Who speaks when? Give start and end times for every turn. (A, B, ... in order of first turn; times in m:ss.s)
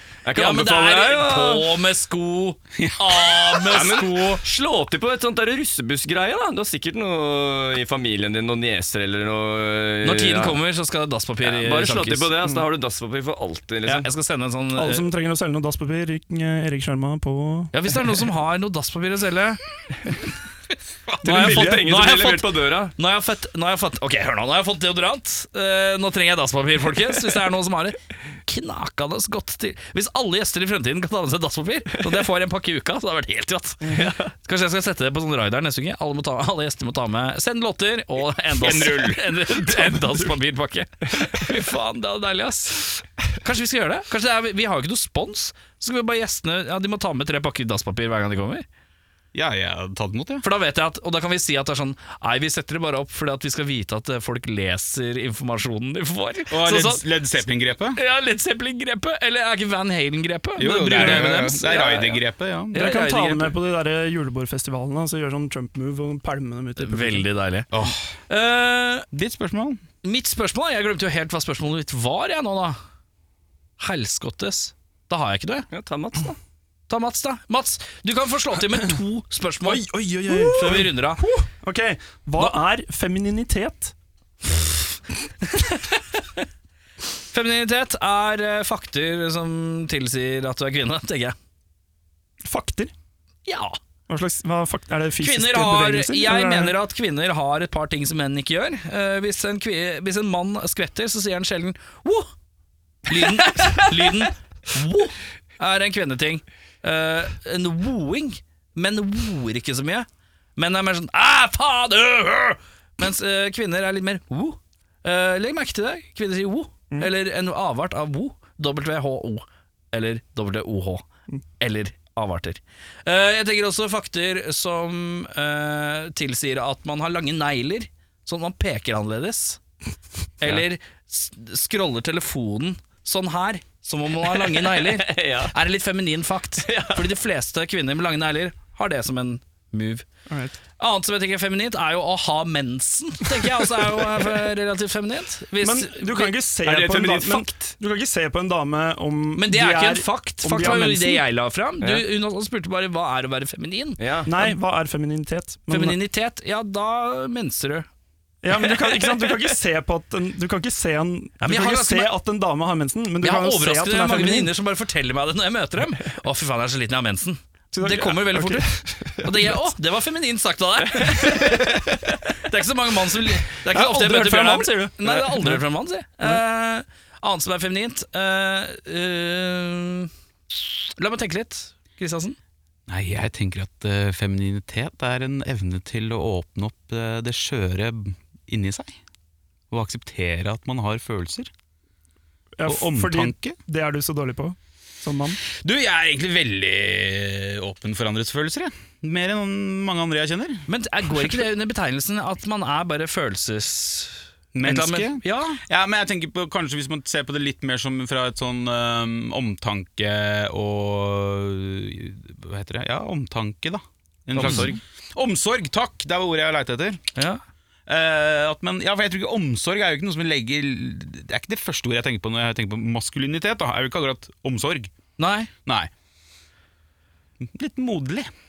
0:00.2-0:01.7 A
0:00.3-0:04.4 B
0:02.8-0:03.6 C
0:03.7-0:10.6 A
0:10.0-0:12.4 B
0:11.4-0:14.1 A
0:13.9-0:15.1 B
0:14.8-0:17.7 D
0:17.7-0:19.6 B
0:21.1-0:48.6 B
0:21.2-0:23.0 A
0:21.4-0:21.8 D
0:33.9-0:34.3 A
0:38.5-0:39.6 C
0:49.3-0:50.4 C
0:50.4-0:57.0 B
0:56.5-0:58.0 C
0:58.0-1:02.2 B
1:00.6-1:03.2 C
1:01.7-1:02.0 A
1:02.7-1:03.5 B
1:02.8-1:07.3 D
1:06.8-1:07.7 B
1:07.7-1:08.1 C
1:08.3-1:09.1 B
1:09.1-1:09.8 C
1:10.0-1:12.8 B
1:13.8-1:15.7 B
1:15.7-1:16.4 A
1:16.9-1:21.2 B
1:19.6-1:23.9 D
1:25.5-1:26.0 B
1:27.3-1:31.4 B
1:32.4-1:32.9 D
1:33.5-1:33.8 B
1:34.1-1:36.8 D
1:35.2-1:42.3 B
1:43.1-2:01.0 B
2:01.6-2:09.6 B
2:10.4-2:20.1 B
2:14.4-2:15.5 A
2:16.6-2:17.0 A
2:20.3-2:20.6 D
2:20.8-2:26.4 B
2:25.6-2:31.2 D
2:26.6-2:27.7 A
2:29.4-2:34.5 B
2:34.0-2:34.3 A
2:34.3-2:36.0 D
2:35.7-2:37.9 B
2:38.4-2:44.5 D
2:38.8-2:39.2 A
2:41.4-2:42.1 B
2:43.2-2:48.7 B
2:47.7-2:49.6 D
2:49.2-3:02.4 B
2:50.8-2:52.1 A
2:53.7-2:55.6 D
3:02.9-3:09.0 C
3:09.7-3:11.5 C
3:12.6-3:15.4 D
3:12.6-3:13.6 C
3:15.5-3:20.7 C
3:20.7-3:25.6 B
3:24.5-3:37.0 C
3:34.4-3:34.8 A
3:34.4-3:34.7 B
3:37.9-3:44.9 C
3:45.2-3:45.5 B
3:47.4-3:48.3 C